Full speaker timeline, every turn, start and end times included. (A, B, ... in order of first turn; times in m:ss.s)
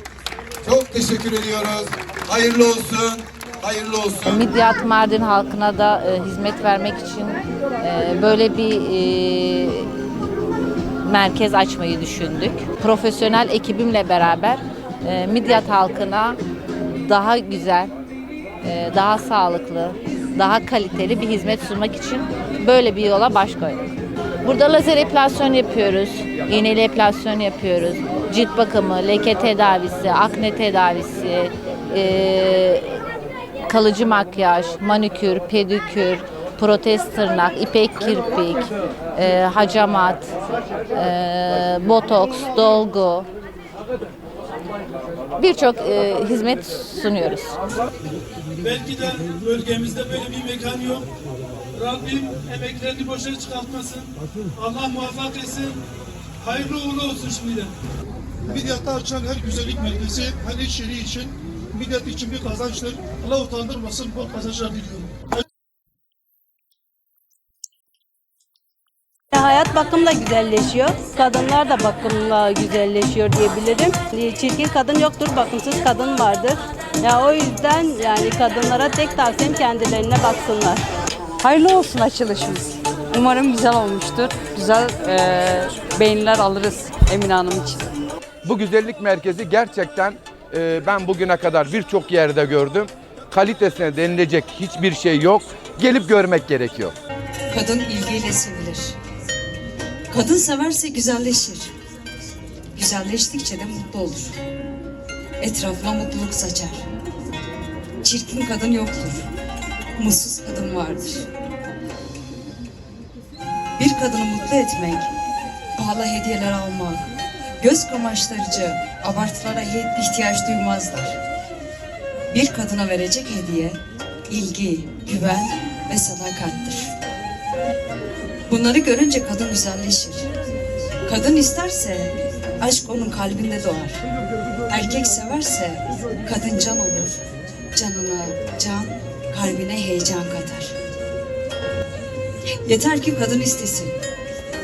0:00.6-0:04.4 A
0:04.2-0:10.0 B
0:11.0-0:16.4 B
0:17.0-0:17.9 B
0:18.6-0:23.9 B
0:24.4-0:33.0 B
0:33.6-0:40.3 B
0:40.9-0:43.3 B
0:45.4-0:47.6 B
0:48.6-0:51.1 C
0:51.7-0:55.8 C
0:56.4-0:57.7 C
0:58.5-1:05.0 D
1:09.3-1:20.8 E
1:21.4-1:27.9 F
1:28.4-1:36.9 G
1:37.5-1:39.0 H
1:40.1-1:41.7 H
1:42.8-1:44.4 H
1:45.4-1:46.8 H
1:48.0-1:49.3 H
1:50.0-1:51.3 H
1:53.8-1:55.1 H
1:55.7-2:01.2 H
2:02.3-2:06.9 H
2:08.5-2:10.3 H
2:11.0-2:14.0 H
2:14.7-2:17.2 H
2:17.7-2:20.7 H
2:22.6-2:24.0 H